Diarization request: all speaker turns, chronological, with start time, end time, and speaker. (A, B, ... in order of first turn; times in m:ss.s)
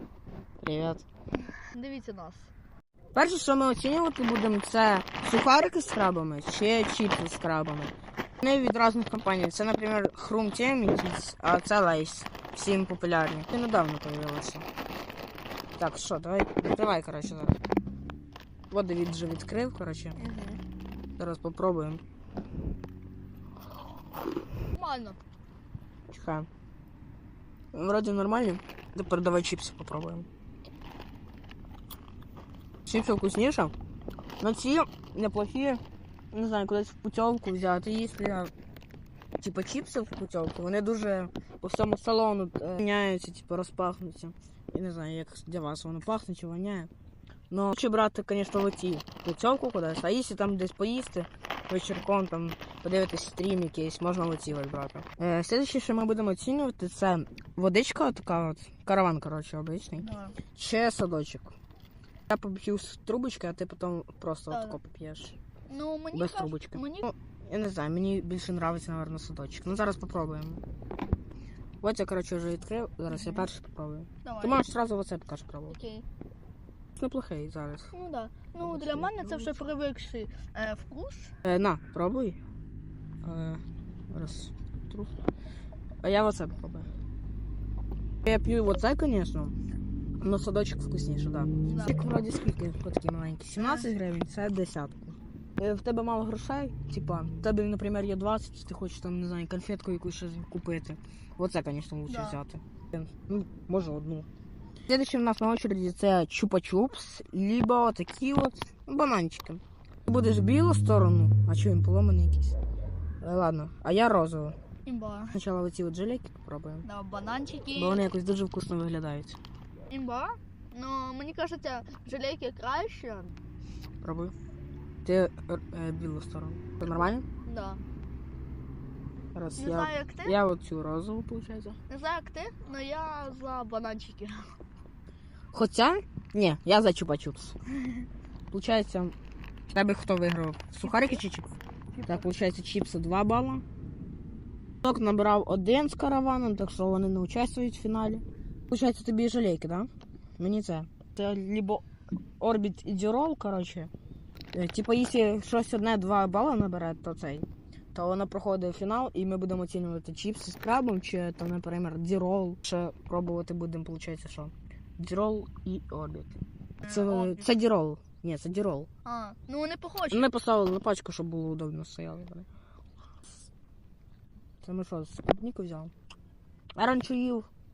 0:00.6-0:01.0 A
0:01.7-0:02.5 B
0:03.1-0:14.7 A
0:15.8-0:17.6 A
0:18.7-0:20.2 A
0:20.2-0:20.6 B
0:21.2-0:22.0 A
0:24.7-0:25.2 B
0:26.1-0:26.5 A
0:27.7-0:30.3 A
0:32.9-0:33.7 A
0:34.4-0:35.8 A
0:36.3-0:38.5 A
0:39.4-0:46.9 A
0:47.5-1:01.5 A
1:00.0-1:00.4 B
1:02.3-1:05.4 A
1:04.5-1:04.8 B
1:05.7-1:07.1 B
1:06.1-1:10.6 A
1:11.8-1:15.8 A
1:13.1-1:13.4 B
1:14.2-1:14.6 B
1:15.7-1:16.0 B
1:17.0-1:17.9 A
1:17.9-1:21.3 B
1:18.6-1:19.7 A
1:21.4-1:22.4 A
1:23.2-1:25.1 A
1:26.0-1:26.9 A
1:28.2-1:29.6 A
1:30.2-1:44.3 A
1:31.6-1:32.0 B
1:33.6-1:33.9 B
1:42.1-1:42.4 B
1:44.9-1:52.6 A
1:53.2-1:54.6 A
1:54.8-1:55.4 B
1:55.3-1:56.8 A
1:56.8-1:58.1 B
1:57.8-1:59.4 A
1:59.9-2:03.3 B
2:04.0-2:04.3 A
2:05.0-2:07.2 A
2:06.8-2:07.8 B
2:09.3-2:11.8 A
2:09.6-2:10.4 B
2:11.9-2:14.5 B
2:15.5-2:17.6 A
2:17.7-2:18.1 B
2:18.5-2:19.2 A
2:19.7-2:21.5 A
2:20.8-2:21.2 B
2:21.9-2:22.2 B
2:22.1-2:23.6 A
2:24.8-2:31.8 A
2:32.4-2:33.9 A
2:34.5-2:48.9 A
2:46.8-2:47.4 B
2:49.0-2:50.3 B
2:50.1-2:52.5 A
2:54.6-2:55.9 A
2:56.8-2:57.5 A